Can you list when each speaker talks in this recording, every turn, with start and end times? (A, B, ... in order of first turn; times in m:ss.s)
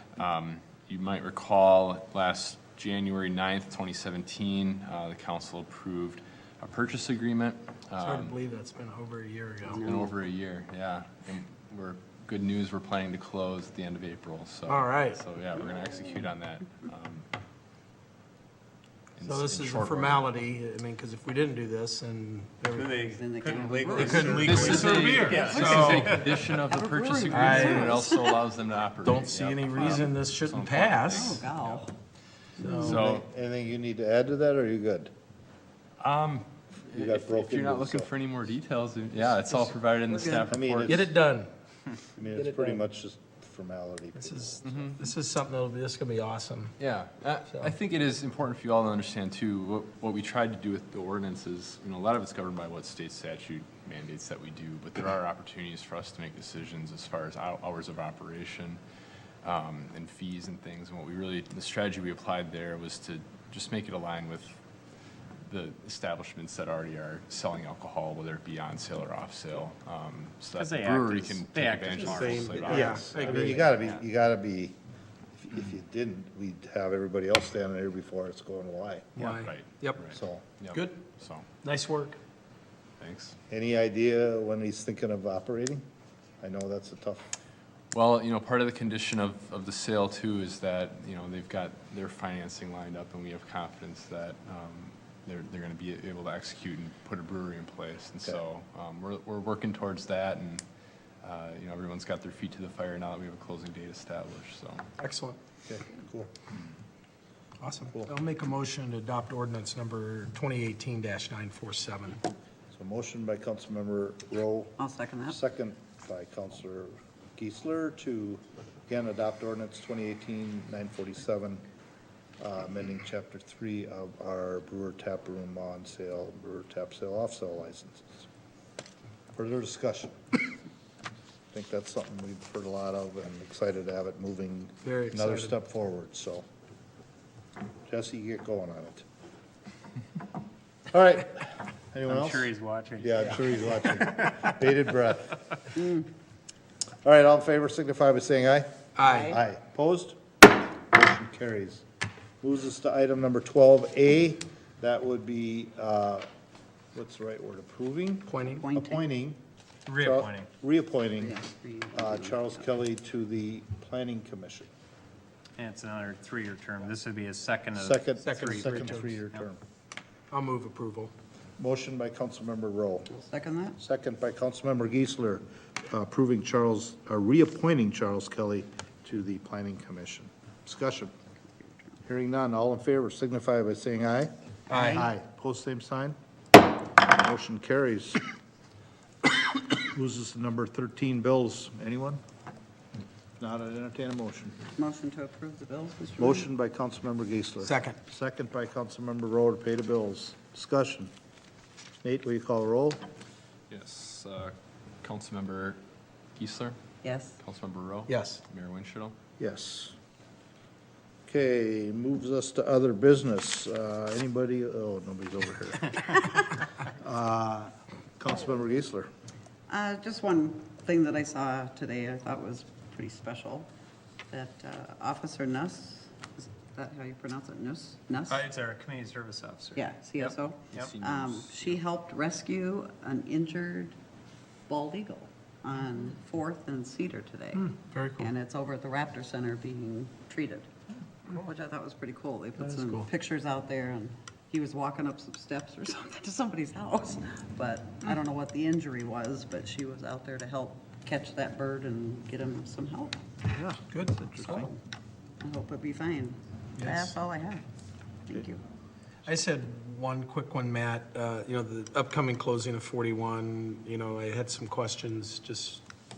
0:00.2-0:08.4 A
0:08.0-0:10.0 B
0:09.7-0:17.3 A
0:14.7-0:15.2 B
0:19.2-0:20.3 A
0:19.2-0:23.0 B
0:22.7-0:26.4 C
0:22.9-0:28.4 D
0:23.9-0:26.2 B
0:24.3-0:31.9 A
0:27.3-0:28.0 B
0:29.0-0:31.4 B
0:31.1-0:31.9 D
0:32.6-0:33.0 D
0:32.6-0:33.0 B
0:32.8-0:33.3 A
0:32.8-0:35.1 E
0:36.0-0:41.0 A
0:36.9-0:38.1 E
0:40.1-0:40.6 D
0:40.4-0:41.1 E
0:40.9-0:41.5 B
0:42.2-0:44.9 E
0:42.3-0:42.8 B
0:44.2-0:46.8 B
0:44.6-0:45.0 A
0:46.8-0:58.8 A
0:59.4-1:04.6 A
1:05.5-1:13.1 A
1:10.6-1:14.0 C
1:11.9-1:13.6 B
1:12.8-1:14.8 E
1:15.3-1:19.1 E
1:19.2-1:20.0 B
1:19.2-1:21.5 A
1:20.1-1:20.4 E
1:20.7-1:21.0 B
1:21.6-1:22.2 B
1:23.0-1:23.4 A
1:23.5-1:25.8 E
1:26.4-1:27.3 E
1:27.9-1:40.6 A
1:41.2-1:44.9 A
1:45.0-1:45.4 B
1:45.7-1:46.6 E
1:47.6-1:52.2 B
1:52.7-2:01.6 E
1:54.8-1:55.4 D
2:02.4-2:08.2 E
2:09.4-2:10.2 E
2:11.5-2:16.4 E
2:14.8-2:15.5 B
2:17.9-2:19.0 E
2:20.9-2:25.4 E
2:22.1-2:23.6 C
2:27.0-2:30.2 E
2:29.0-2:29.4 B
2:29.0-2:29.4 D
2:30.9-2:31.8 E
2:32.4-2:36.3 E
2:36.9-2:39.4 E
2:38.3-2:38.7 B
2:38.4-2:39.0 D
2:39.9-2:40.5 C
2:40.0-2:41.4 E
2:41.2-2:42.6 D
2:41.9-2:44.7 E
2:45.6-2:49.4 C
2:47.8-2:49.6 E
2:48.2-2:49.2 B
2:50.3-2:51.1 B
2:51.6-2:53.1 E
2:53.1-2:53.8 D
2:53.8-3:01.1 E
3:02.1-3:06.2 E
3:04.7-3:05.0 B
3:04.7-3:05.0 D
3:07.0-3:08.3 E
3:09.7-3:12.2 E
3:13.4-3:14.6 E
3:14.8-3:16.5 D
3:16.2-3:21.1 E
3:17.6-3:18.0 B
3:22.0-3:23.0 E
3:23.7-3:25.8 A
3:26.4-3:26.8 A
3:27.0-3:27.4 D
3:27.4-3:29.2 A
3:28.1-3:28.4 B
3:29.4-3:30.0 E
3:31.3-3:39.1 E
3:39.7-3:43.7 D
3:44.3-3:48.4 D
3:48.3-3:50.9 C
3:49.8-3:54.0 D
3:50.7-3:51.8 A
3:54.7-4:00.7 D
3:57.6-3:58.3 B
4:01.3-4:13.2 D
4:02.6-4:03.1 B
4:13.9-4:14.4 B
4:14.3-4:14.8 D
4:15.4-4:17.6 D
4:16.8-4:17.1 B
4:18.3-4:18.6 D
4:19.3-4:25.8 B